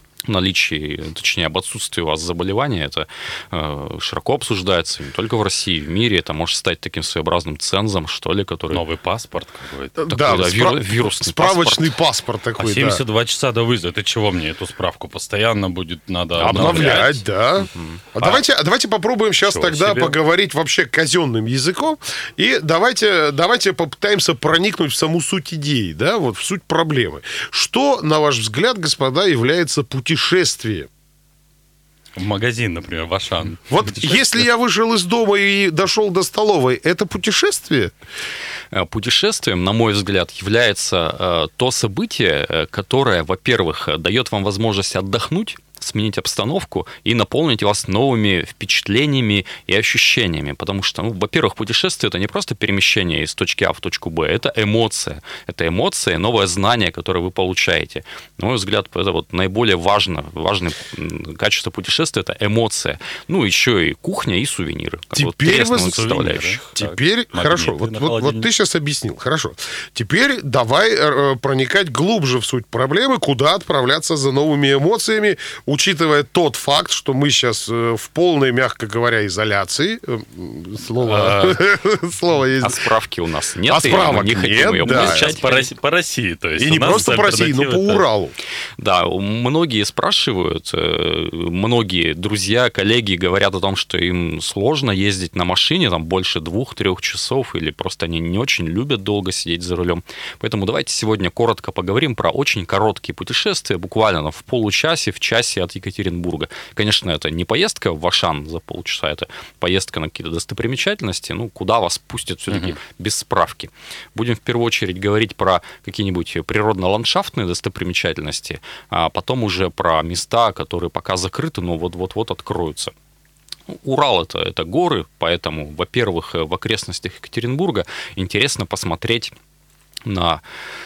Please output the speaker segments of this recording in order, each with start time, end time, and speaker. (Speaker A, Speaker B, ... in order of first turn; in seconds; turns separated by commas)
Speaker A: 0.2-8.8, Speaker B: 8.7-10.0, Speaker C: 10.0-13.0, Speaker A: 10.1-11.9, Speaker B: 12.6-17.2, Speaker C: 16.4-30.9, Speaker A: 16.4-17.1, Speaker B: 19.4-20.2, Speaker B: 32.1-33.7, Speaker C: 33.7-37.9, Speaker A: 38.7-66.7, Speaker C: 65.1-66.2, Speaker B: 65.5-68.5, Speaker C: 66.7-82.8, Speaker B: 81.0-81.6, Speaker A: 82.6-85.7, Speaker C: 83.7-85.4, Speaker B: 84.8-88.0, Speaker C: 86.6-88.3, Speaker A: 88.8-122.9, Speaker B: 112.5-112.8, Speaker A: 123.7-129.3, Speaker A: 130.0-130.4